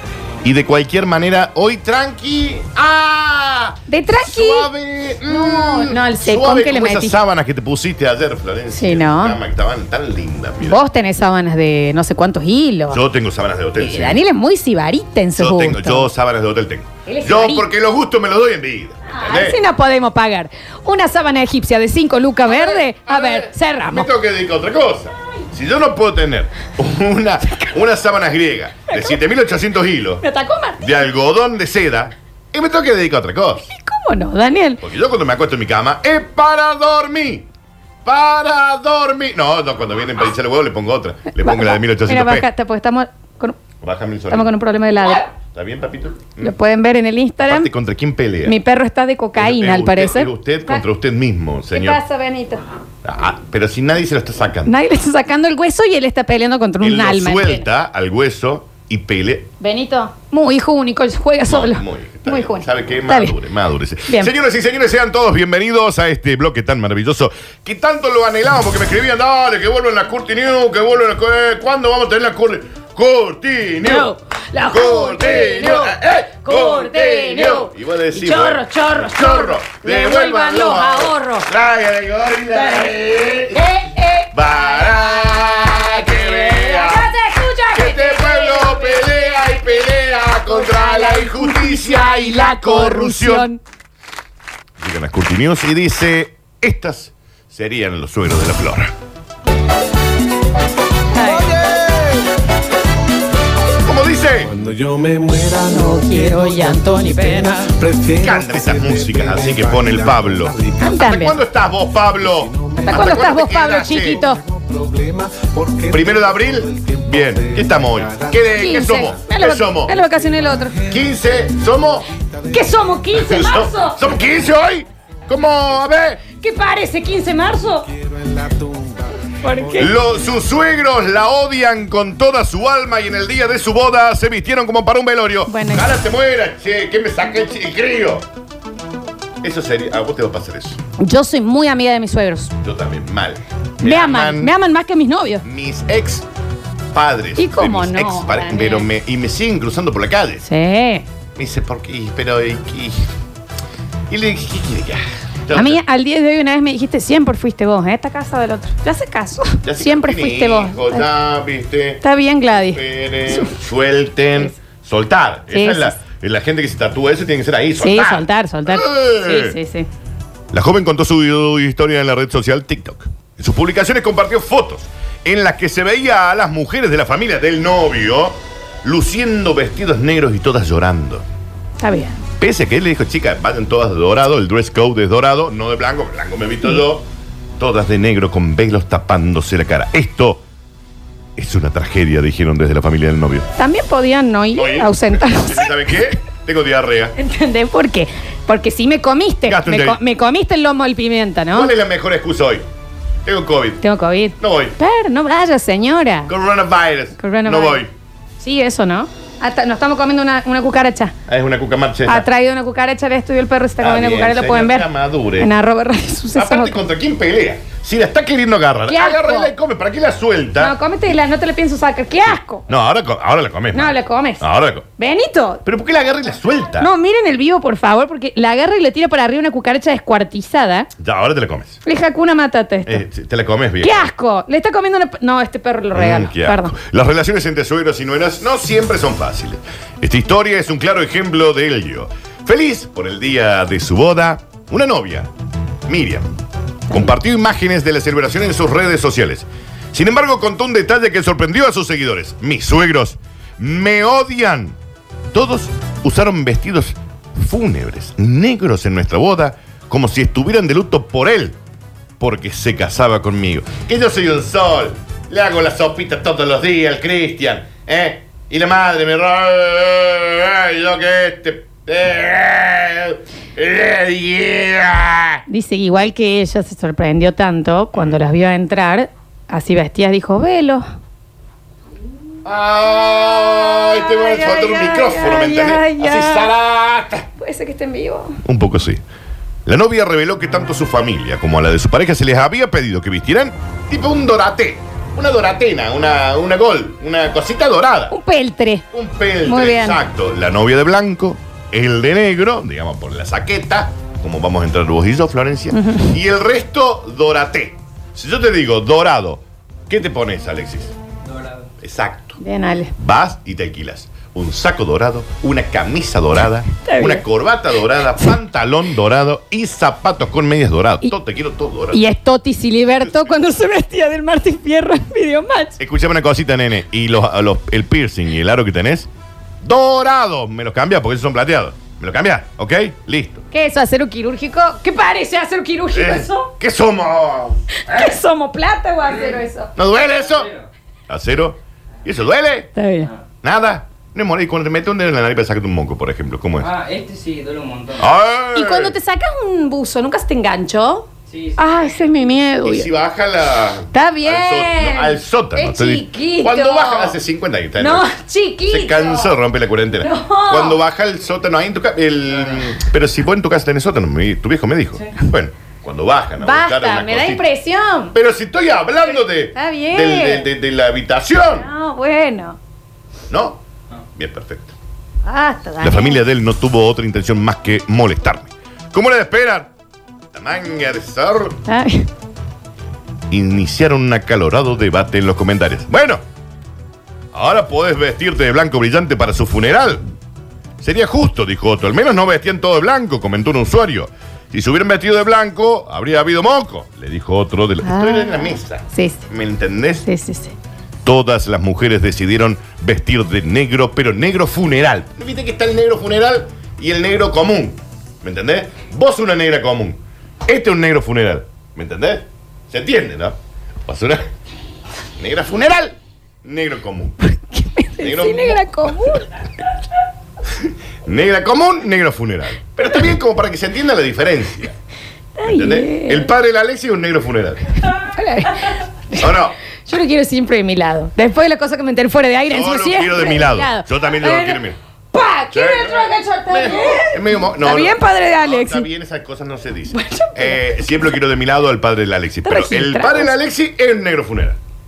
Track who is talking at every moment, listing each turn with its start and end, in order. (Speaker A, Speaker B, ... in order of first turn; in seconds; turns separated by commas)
Speaker A: 0.4-10.8, Speaker B: 3.9-4.7, Speaker B: 5.3-7.1, Speaker B: 8.7-9.4, Speaker B: 10.6-13.0, Speaker A: 12.9-14.2, Speaker B: 13.8-16.1, Speaker A: 15.4-19.6, Speaker B: 17.1-17.6, Speaker B: 19.1-24.1, Speaker A: 22.4-30.2, Speaker B: 28.9-29.1, Speaker B: 30.2-30.9, Speaker A: 30.8-33.6, Speaker B: 33.7-34.8, Speaker A: 34.8-37.5, Speaker A: 38.0-42.5, Speaker B: 41.4-43.6, Speaker A: 43.8-44.5, Speaker B: 44.3-45.3, Speaker A: 45.1-46.5, Speaker B: 46.4-47.7, Speaker A: 47.4-48.6, Speaker B: 48.5-50.8, Speaker A: 49.4-52.0, Speaker B: 51.7-52.6, Speaker A: 53.0-54.7, Speaker B: 54.6-57.6, Speaker A: 56.8-59.5, Speaker B: 59.6-63.3, Speaker A: 61.5-74.1, Speaker B: 64.1-64.3, Speaker B: 73.8-81.5, Speaker A: 74.7-83.6, Speaker B: 82.5-82.9, Speaker B: 83.5-89.8, Speaker A: 84.3-87.1, Speaker A: 87.7-93.5, Speaker B: 90.5-93.6, Speaker A: 94.8-98.9, Speaker B: 101.1-101.5, Speaker C: 101.5-101.8, Speaker A: 103.8-104.5, Speaker C: 104.4-111.0, Speaker B: 105.7-107.7, Speaker A: 108.2-114.2, Speaker B: 110.8-111.3, Speaker C: 112.2-113.2, Speaker B: 112.9-114.4, Speaker C: 114.1-119.2, Speaker A: 115.9-119.9, Speaker B: 118.5-120.8, Speaker C: 120.0-121.1, Speaker A: 120.9-122.1, Speaker C: 122.1-123.1, Speaker B: 122.5-124.0, Speaker A: 123.1-126.2, Speaker C: 124.0-124.5, Speaker B: 126.4-127.9, Speaker C: 127.8-130.3, Speaker B: 129.4-129.9, Speaker A: 129.8-138.2, Speaker B: 135.5-135.9, Speaker A: 139.4-140.8, Speaker B: 141.0-142.5, Speaker A: 142.6-144.5, Speaker B: 143.8-145.4, Speaker A: 145.4-146.2, Speaker A: 146.9-150.4, Speaker B: 147.4-148.8, Speaker B: 150.4-151.0, Speaker A: 151.3-153.1, Speaker A: 154.1-155.8, Speaker B: 155.5-161.1, Speaker A: 159.6-162.0, Speaker B: 162.0-163.5, Speaker A: 162.5-169.5, Speaker B: 165.5-165.9, Speaker B: 167.8-169.9, Speaker A: 170.5-181.2, Speaker B: 181.8-182.2, Speaker A: 182.4-187.0, Speaker A: 187.6-190.4, Speaker A: 191.4-193.5, Speaker B: 193.6-195.9, Speaker A: 194.5-197.1, Speaker B: 197.2-201.7, Speaker A: 199.5-200.0, Speaker A: 201.5-202.6, Speaker A: 203.2-203.8, Speaker B: 203.8-206.3, Speaker A: 204.4-204.7, Speaker A: 206.3-207.9, Speaker B: 207.2-207.8, Speaker B: 208.4-211.1, Speaker A: 211.3-212.2, Speaker B: 212.1-214.9, Speaker A: 213.8-215.5, Speaker B: 215.4-216.8, Speaker A: 216.3-220.7, Speaker B: 218.9-219.5, Speaker B: 220.6-222.6, Speaker A: 222.7-224.8, Speaker B: 223.7-224.4, Speaker B: 225.0-225.6, Speaker A: 225.6-226.9, Speaker B: 226.8-230.9, Speaker A: 231.0-231.8, Speaker B: 231.8-233.0, Speaker A: 232.8-234.1, Speaker B: 233.8-236.7, Speaker A: 235.9-245.3, Speaker A: 245.9-246.3, Speaker A: 246.9-254.8, Speaker A: 255.3-261.6, Speaker A: 262.2-275.4, Speaker B: 275.5-280.8, Speaker A: 282.4-287.2, Speaker B: 283.7-286.5, Speaker B: 287.4-288.4, Speaker A: 288.4-289.0, Speaker A: 289.6-298.1, Speaker B: 298.1-298.8, Speaker A: 298.9-310.9, Speaker B: 299.4-300.0, Speaker B: 305.8-306.1, Speaker D: 311.3-311.6, Speaker A: 311.8-312.4, Speaker B: 312.4-312.9, Speaker A: 313.0-322.0, Speaker B: 316.8-317.2, Speaker B: 321.9-325.8, Speaker A: 325.8-329.1, Speaker A: 329.6-333.4, Speaker B: 333.5-336.5, Speaker A: 335.9-338.0, Speaker B: 337.8-339.7, Speaker A: 339.8-340.5, Speaker D: 340.3-340.6, Speaker A: 341.1-342.7, Speaker B: 342.8-343.1, Speaker A: 343.4-346.7, Speaker D: 346.6-348.1, Speaker A: 348.0-348.9, Speaker B: 348.5-352.9, Speaker D: 351.3-352.0, Speaker A: 352.6-358.1, Speaker B: 353.9-357.1, Speaker B: 357.8-359.3, Speaker A: 358.7-367.4, Speaker B: 360.0-360.8, Speaker B: 366.4-368.1, Speaker A: 368.1-371.7, Speaker B: 369.5-370.4, Speaker B: 371.5-372.6, Speaker A: 373.3-373.6, Speaker A: 374.1-374.7, Speaker B: 375.2-376.2, Speaker A: 375.8-379.7, Speaker A: 380.3-381.6, Speaker B: 381.7-382.1, Speaker A: 383.3-386.2, Speaker A: 387.3-390.0, Speaker A: 390.8-400.1, Speaker B: 397.8-399.2, Speaker B: 400.0-400.5, Speaker A: 401.0-413.4, Speaker A: 413.9-414.2, Speaker A: 415.2-417.2, Speaker B: 417.3-419.3, Speaker A: 418.0-418.9, Speaker A: 420.6-424.7, Speaker B: 425.4-426.3, Speaker A: 425.5-427.7, Speaker B: 428.0-429.3, Speaker A: 429.2-429.6, Speaker B: 429.8-434.6, Speaker A: 432.5-434.8, Speaker B: 435.1-438.9, Speaker A: 435.5-444.6, Speaker B: 439.9-440.6, Speaker B: 442.4-443.3